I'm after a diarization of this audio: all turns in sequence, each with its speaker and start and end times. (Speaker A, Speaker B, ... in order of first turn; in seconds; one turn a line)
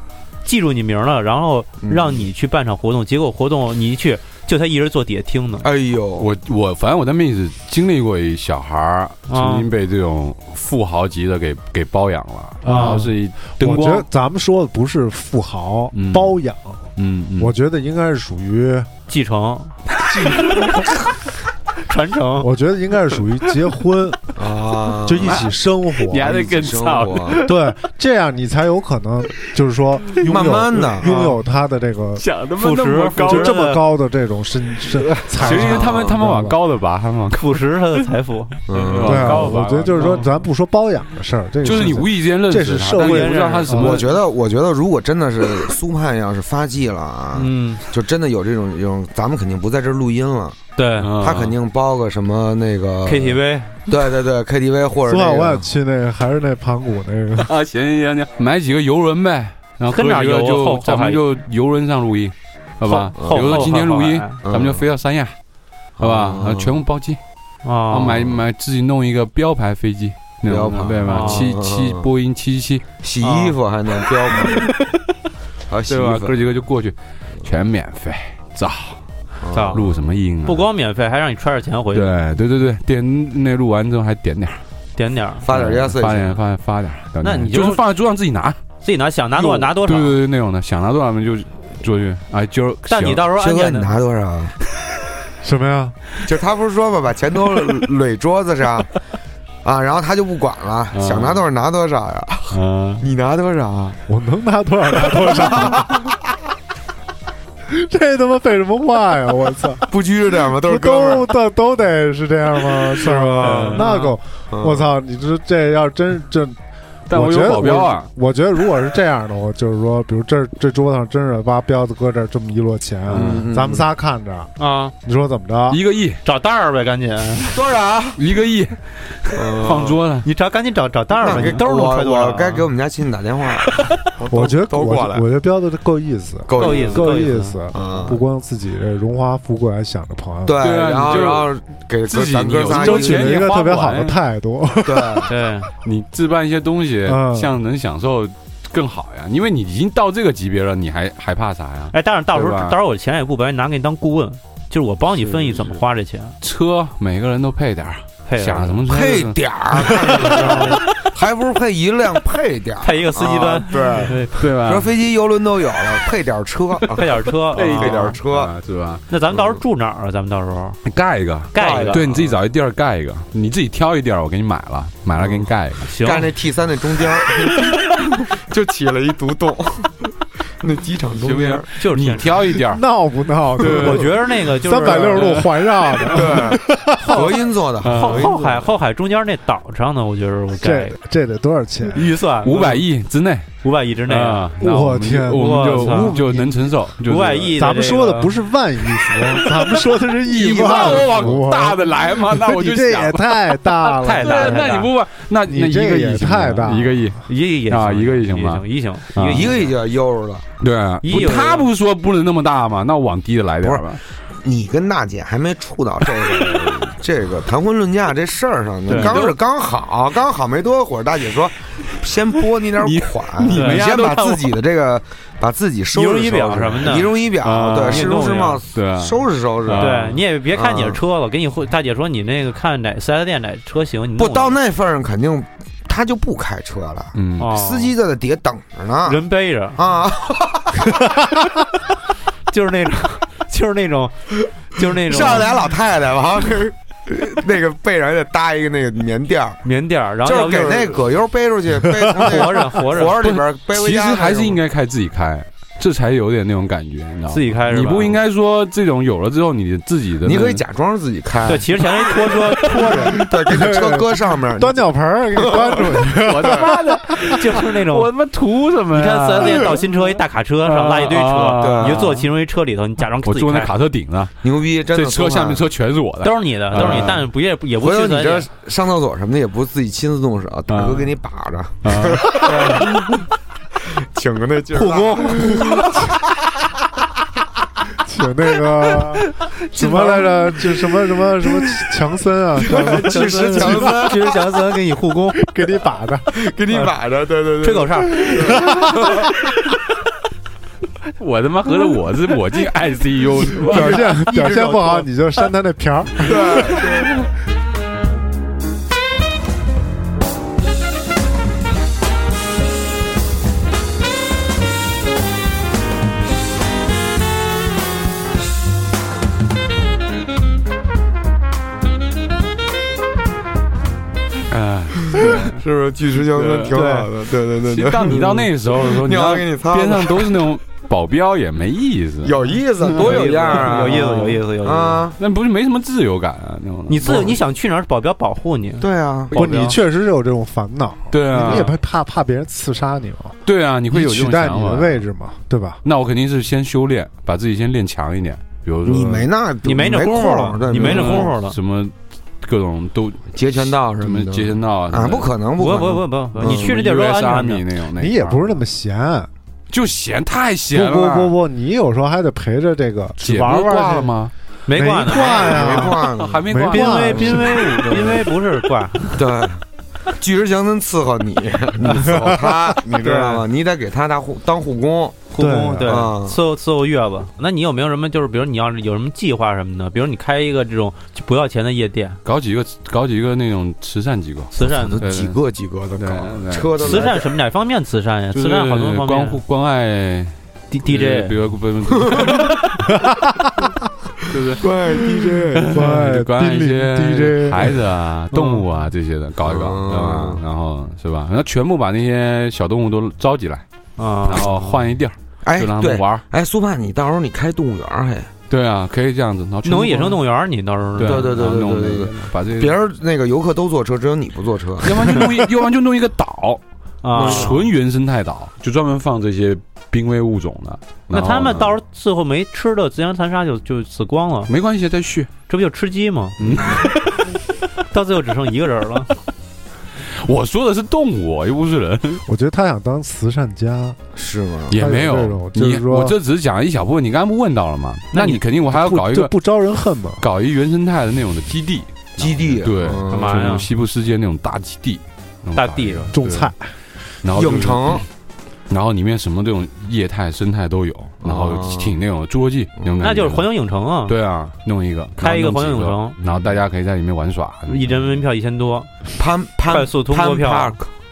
Speaker A: 0.4-5.7
Speaker B: 1.8-2.2
Speaker B: 5.6-6.3
Speaker C: 6.2-14.1
Speaker A: 9.3-9.7
Speaker A: 12.6-13.1
Speaker D: 12.7-18.9
Speaker C: 15.9-16.4
Speaker C: 16.9-17.5
Speaker A: 19.1-19.8
Speaker C: 20.1-20.6
Speaker A: 21.9-22.5
Speaker D: 22.4-24.3
Speaker B: 24.4-25.5
Speaker D: 24.9-26.4
Speaker C: 25.2-27.6
Speaker B: 26.1-27.4
Speaker D: 27.4-32.2
Speaker C: 30.2-30.5
Speaker B: 30.2-31.2
Speaker A: 31.0-31.4
Speaker C: 32.2-33.6
Speaker A: 32.6-33.8
Speaker D: 33.2-36.6
Speaker C: 35.3-37.6
Speaker B: 35.5-36.1
Speaker A: 37.3-38.5
Speaker B: 38.7-39.5
Speaker C: 38.7-40.3
Speaker D: 39.0-43.9
Speaker C: 41.6-44.1
Speaker A: 43.0-43.9
Speaker B: 43.7-50.6
Speaker A: 47.3-47.8
Speaker A: 50.8-51.1
Speaker C: 51.0-51.6
Speaker B: 51.2-55.7
Speaker A: 53.0-53.8
Speaker D: 55.0-57.5
Speaker C: 57.4-65.3
Speaker A: 59.9-61.2
Speaker A: 62.9-64.4
Speaker B: 63.2-63.7
Speaker B: 64.4-64.8
Speaker C: 66.0-67.2
Speaker B: 66.0-66.8
Speaker A: 67.6-68.3
Speaker C: 67.9-72.8
Speaker B: 70.5-72.1
Speaker A: 71.0-71.5
Speaker B: 73.0-74.7
Speaker A: 73.2-73.5
Speaker B: 75.7-76.4
Speaker C: 75.9-79.0
Speaker B: 79.4-80.0
Speaker A: 79.5-79.8
Speaker C: 79.7-80.7
Speaker A: 80.4-82.1
Speaker C: 81.9-84.6
Speaker A: 85.0-85.4
Speaker B: 85.4-86.4
Speaker C: 85.5-88.6
Speaker A: 87.2-87.8
Speaker A: 88.8-90.2
Speaker C: 89.3-93.3
Speaker A: 92.9-93.9
Speaker B: 93.2-94.5
Speaker D: 95.4-96.0
Speaker B: 96.2-98.9
Speaker B: 99.6-104.0
Speaker C: 100.9-101.4
Speaker C: 102.5-103.0
Speaker D: 104.1-106.1
Speaker B: 105.2-106.1
Speaker D: 107.7-116.6
Speaker B: 109.8-111.3
Speaker B: 113.0-113.7
Speaker C: 113.3-113.9
Speaker A: 113.4-114.1
Speaker B: 114.5-114.9
Speaker C: 117.1-118.1
Speaker D: 117.1-124.5
Speaker B: 123.1-123.9
Speaker A: 124.6-124.9
Speaker D: 125.0-125.8
Speaker C: 125.7-126.2
Speaker A: 126.2-127.6
Speaker B: 127.5-128.2
Speaker C: 128.2-130.3
Speaker B: 129.3-130.0
Speaker A: 130.2-132.7
Speaker B: 131.2-135.3
Speaker D: 134.3-140.7
Speaker B: 136.4-137.1
Speaker A: 136.5-137.6
Speaker B: 137.7-138.2
Speaker B: 140.4-143.4
Speaker C: 140.6-141.5
Speaker C: 142.1-144.2
Speaker D: 142.7-145.3
Speaker B: 144.8-145.3
Speaker A: 145.3-145.7
Speaker C: 145.8-152.8
Speaker D: 147.0-147.5
Speaker A: 151.9-156.3
Speaker B: 155.2-155.5
Speaker C: 156.4-160.3
Speaker A: 158.3-158.8
Speaker B: 158.8-168.5
Speaker A: 160.3-160.8
Speaker A: 162.8-164.5
Speaker C: 164.4-164.9
Speaker A: 166.9-168.2
Speaker C: 167.5-169.0
Speaker A: 169.1-170.8
Speaker C: 170.8-175.8
Speaker A: 171.5-172.1
Speaker B: 171.6-172.4
Speaker B: 175.2-180.1
Speaker A: 175.8-176.3
Speaker B: 180.6-181.7
Speaker C: 181.2-182.8
Speaker A: 181.8-182.4
Speaker D: 182.6-187.3
Speaker C: 183.6-184.2
Speaker A: 183.6-185.5
Speaker C: 184.8-185.5
Speaker B: 186.1-188.7
Speaker C: 187.8-188.3
Speaker A: 187.9-190.9
Speaker D: 190.6-192.1
Speaker A: 191.9-192.8
Speaker C: 192.1-193.5
Speaker A: 193.6-194.5
Speaker C: 194.1-197.6
Speaker D: 194.6-196.7
Speaker A: 195.3-196.2
Speaker A: 197.0-198.3
Speaker D: 197.6-204.8
Speaker C: 199.1-209.6
Speaker A: 204.0-204.9
Speaker D: 205.5-207.2
Speaker A: 207.2-209.8
Speaker B: 209.2-210.5
Speaker C: 210.6-214.0
Speaker A: 211.0-211.7
Speaker B: 214.4-231.0
Speaker C: 218.9-219.4
Speaker A: 218.9-219.2
Speaker C: 222.8-224.6
Speaker A: 223.5-223.8
Speaker A: 225.9-227.2
Speaker C: 227.4-230.2
Speaker A: 227.9-228.6
Speaker A: 229.8-234.6
Speaker B: 234.2-239.2
Speaker C: 237.1-237.6
Speaker A: 237.4-237.9
Speaker A: 239.0-239.8
Speaker B: 239.8-241.0
Speaker A: 242.5-244.1
Speaker A: 244.7-245.5
Speaker B: 245.0-249.6
Speaker A: 249.6-251.0
Speaker B: 250.2-254.6
Speaker A: 252.1-253.2
Speaker C: 253.0-260.6
Speaker A: 257.3-258.2
Speaker B: 260.2-262.3
Speaker A: 261.4-263.2
Speaker B: 262.9-264.8
Speaker D: 263.3-267.3
Speaker B: 265.4-266.7
Speaker C: 266.2-269.8
Speaker A: 267.2-268.1
Speaker A: 268.9-273.7
Speaker C: 270.6-272.2
Speaker B: 271.6-272.2
Speaker C: 273.2-277.2
Speaker B: 274.4-275.6
Speaker A: 276.2-278.5
Speaker B: 276.8-283.1
Speaker C: 280.7-281.1
Speaker C: 281.8-282.5
Speaker A: 282.4-282.9
Speaker B: 283.9-286.1
Speaker A: 284.7-285.9
Speaker D: 287.9-294.2
Speaker A: 289.8-290.3
Speaker A: 292.7-295.4
Speaker B: 292.7-294.4
Speaker D: 295.4-296.3
Speaker B: 296.3-299.3
Speaker A: 297.6-298.6
Speaker D: 298.2-299.1
Speaker C: 301.2-304.1
Speaker D: 303.6-307.0
Speaker A: 303.7-305.1
Speaker B: 306.2-307.1
Speaker C: 324.5-325.5
Speaker B: 325.1-330.4
Speaker C: 326.3-326.8
Speaker A: 326.7-327.1
Speaker C: 327.6-334.4
Speaker B: 332.2-335.2
Speaker A: 332.8-335.0
Speaker C: 335.2-337.3
Speaker A: 336.9-338.8
Speaker B: 338.8-339.4
Speaker C: 339.3-339.8
Speaker D: 339.3-345.8
Speaker A: 339.4-339.7
Speaker C: 341.1-341.7
Speaker A: 341.3-341.6
Speaker C: 343.4-345.0
Speaker C: 345.8-349.3
Speaker B: 348.8-351.3
Speaker A: 349.6-351.6
Speaker C: 350.7-355.3
Speaker B: 353.3-356.7
Speaker A: 355.6-357.6
Speaker C: 356.4-358.4
Speaker D: 358.0-359.3
Speaker C: 359.7-361.3
Speaker D: 360.7-364.1
Speaker C: 363.2-364.3
Speaker A: 364.7-365.8
Speaker D: 364.7-368.3
Speaker B: 365.2-366.5
Speaker C: 365.6-368.0
Speaker A: 366.7-369.2
Speaker B: 369.1-369.6
Speaker B: 370.1-375.3
Speaker D: 372.0-372.6
Speaker A: 373.0-373.4
Speaker A: 375.3-382.2
Speaker D: 375.4-376.1
Speaker B: 375.8-376.4
Speaker C: 382.2-385.4
Speaker A: 384.5-385.0
Speaker B: 384.6-387.3
Speaker C: 385.9-387.1
Speaker A: 386.8-389.4
Speaker C: 388.3-392.9
Speaker A: 390.7-391.3
Speaker B: 392.0-392.5
Speaker D: 392.9-393.7
Speaker C: 394.3-394.7
Speaker B: 394.5-396.0
Speaker C: 395.6-403.6
Speaker D: 395.7-397.8
Speaker A: 398.3-398.6
Speaker B: 399.4-400.4
Speaker A: 404.0-404.5
Speaker C: 404.2-406.2
Speaker B: 405.4-408.3
Speaker C: 408.5-410.2
Speaker A: 409.6-411.3
Speaker C: 411.0-412.8
Speaker B: 411.0-415.4
Speaker C: 414.8-416.6
Speaker A: 417.0-417.6
Speaker B: 417.1-417.6
Speaker C: 417.1-421.8
Speaker A: 421.1-424.5
Speaker C: 424.5-425.3
Speaker A: 425.5-426.4
Speaker C: 426.4-427.0
Speaker A: 427.9-429.1
Speaker C: 430.0-432.2
Speaker D: 432.2-434.0
Speaker B: 434.1-434.8
Speaker C: 434.7-439.4
Speaker D: 434.7-436.2
Speaker A: 438.1-438.4
Speaker D: 438.7-440.2
Speaker C: 440.2-446.5
Speaker B: 442.2-443.5
Speaker A: 443.1-443.7
Speaker A: 445.5-446.1
Speaker D: 446.1-446.7
Speaker C: 447.2-448.0
Speaker B: 447.3-448.0
Speaker C: 448.7-453.5
Speaker B: 451.2-451.9
Speaker A: 453.0-454.1
Speaker C: 454.1-458.0
Speaker A: 455.2-456.2
Speaker A: 457.7-458.9
Speaker B: 459.1-460.9
Speaker A: 459.7-460.8